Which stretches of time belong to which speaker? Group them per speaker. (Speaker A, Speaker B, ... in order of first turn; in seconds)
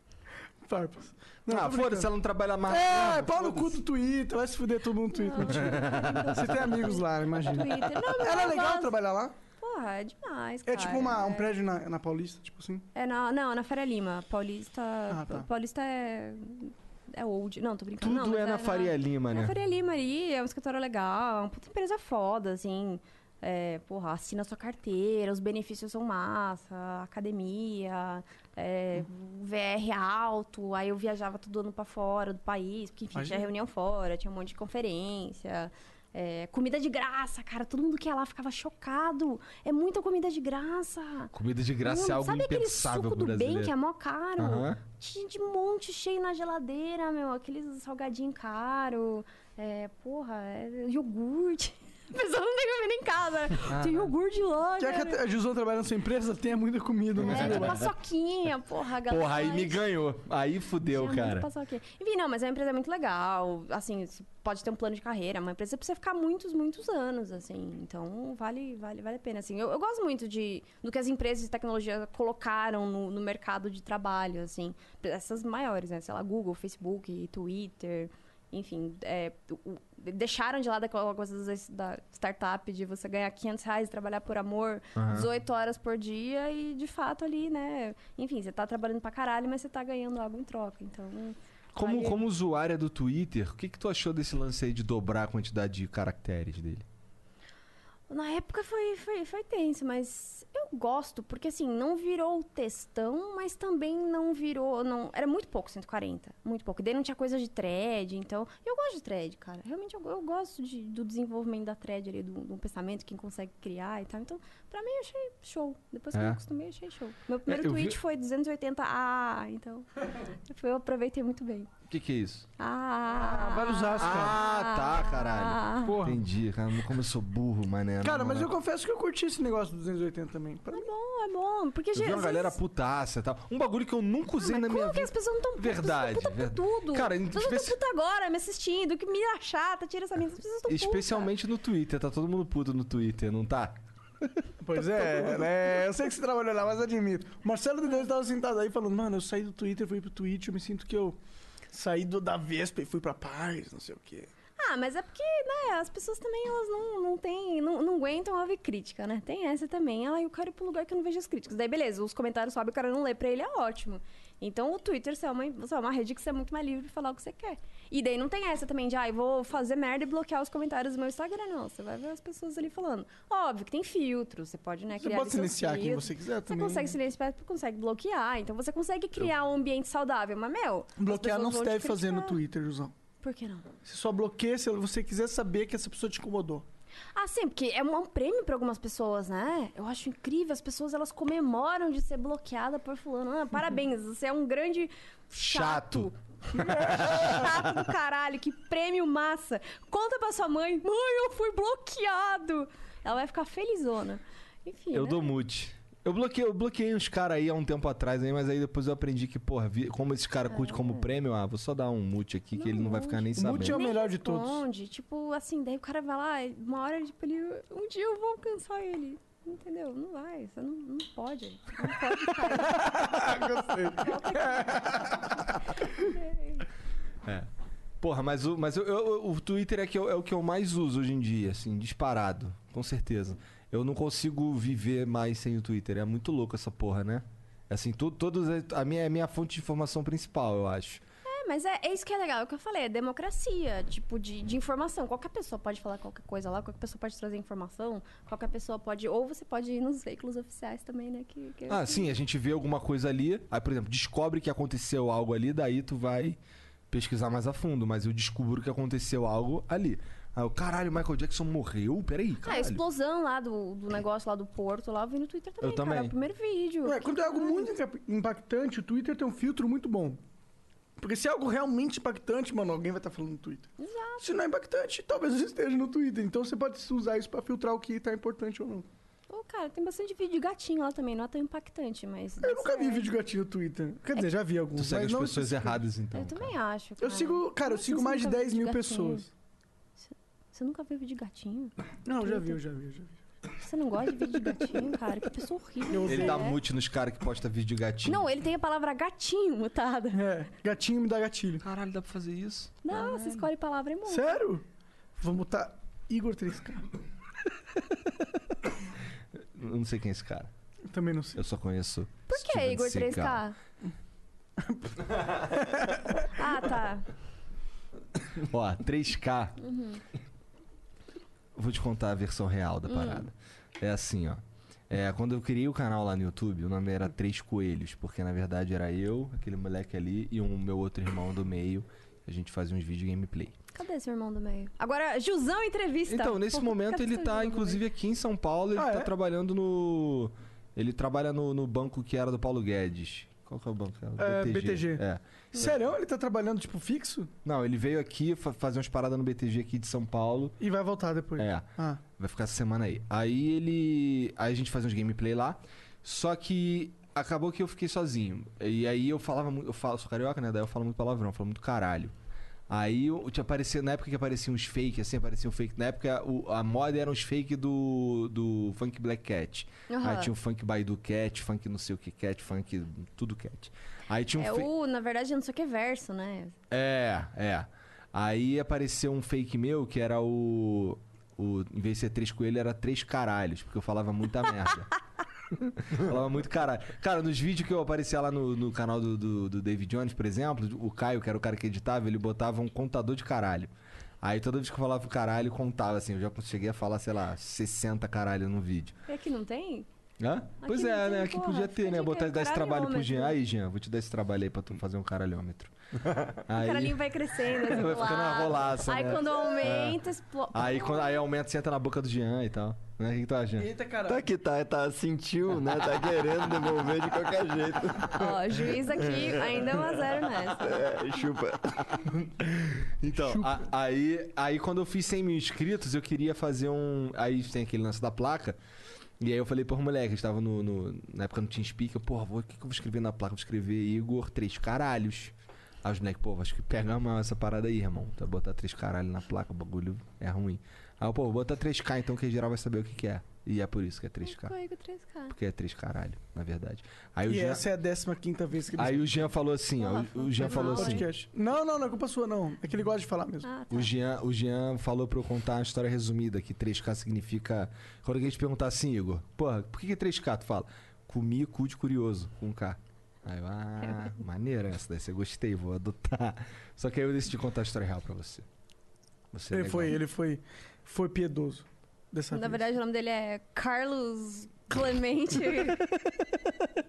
Speaker A: 0.6-2.1, 2.7-9.3, 10.7-12.8, 15.1-15.5, 33.1-33.5, 54.8-57.8, 123.1-124.4, 125.8-126.2, 128.0-130.9, 144.6-151.2, 151.7-154.3, 174.9-176.9, 181.0-182.9, 183.8-186.7, 196.6-197.1, 213.3-214.6, 222.5-225.4, 266.8-270.2, 271.0-278.9, 282.4-285.8, 287.0-289.3, 292.1-293.2, 295.9-296.5, 300.1-301.6, 304.1-304.6, 305.2-306.9, 310.9-311.4, 314.6-316.3, 338.7-339.1, 344.2-345.0, 345.5-347.3, 350.6-352.0, 413.6-414.3, 423.1-423.6, 447.3-449.3, 450.4-453.5, 469.5-472.6
Speaker B: 1.5-3.8, 5.5-6.6, 18.0-19.5, 41.3-43.7, 44.4-44.8, 53.7-54.1, 57.2-57.8, 59.0-61.5, 84.9-85.3, 91.7-96.8, 116.1-116.4, 117.5-118.0, 121.9-122.5, 124.0-128.5, 131.9-137.8, 140.7-143.8, 144.8-145.4, 195.4-196.1, 196.7-197.6, 204.9-213.8, 228.0-241.0, 251.7-256.4, 256.9-262.8, 265.6-266.1, 284.7-286.6, 296.1-298.3, 301.6-303.4, 309.5-310.5, 311.4-313.4, 318.4-319.6, 321.5-333.6, 336.1-345.8, 347.4-350.6, 351.4-362.1, 362.7-374.7, 376.7-384.9, 385.5-398.9, 400.2-405.7, 406.4-413.7, 422.4-428.6, 429.2-444.5, 445.3-447.6, 448.8-451.1, 453.7-468.4, 469.3-470.0, 475.5-476.5
Speaker C: 5.1-8.9, 9.6-11.5, 12.9-41.3, 41.8-55.2, 57.2-59.8, 60.9-92.2, 98.1-121.7, 122.6-125.9, 130.7-132.6, 134.4-141.3, 154.6-182.4, 183.2-183.7, 187.1-205.3, 210.5-211.1, 212.5-226.6, 241.2-252.1, 262.4-267.7, 273.8-274.2, 279.3-283.1, 286.1-289.2, 290.1-292.6, 293.6-296.6, 298.0-300.2, 302.8-304.4, 312.3-313.6, 316.3-317.1, 319.6-320.0, 322.9-323.2, 333.7-337.8, 369.9-370.3, 374.4-376.5, 399.1-399.9, 400.6-403.4, 406.5-411.2, 418.1-420.9, 444.2-445.4, 449.8-451.1, 453.4-453.9, 472.3-475.8
Speaker D: 414.0-418.4, 419.1-419.6, 420.6-422.1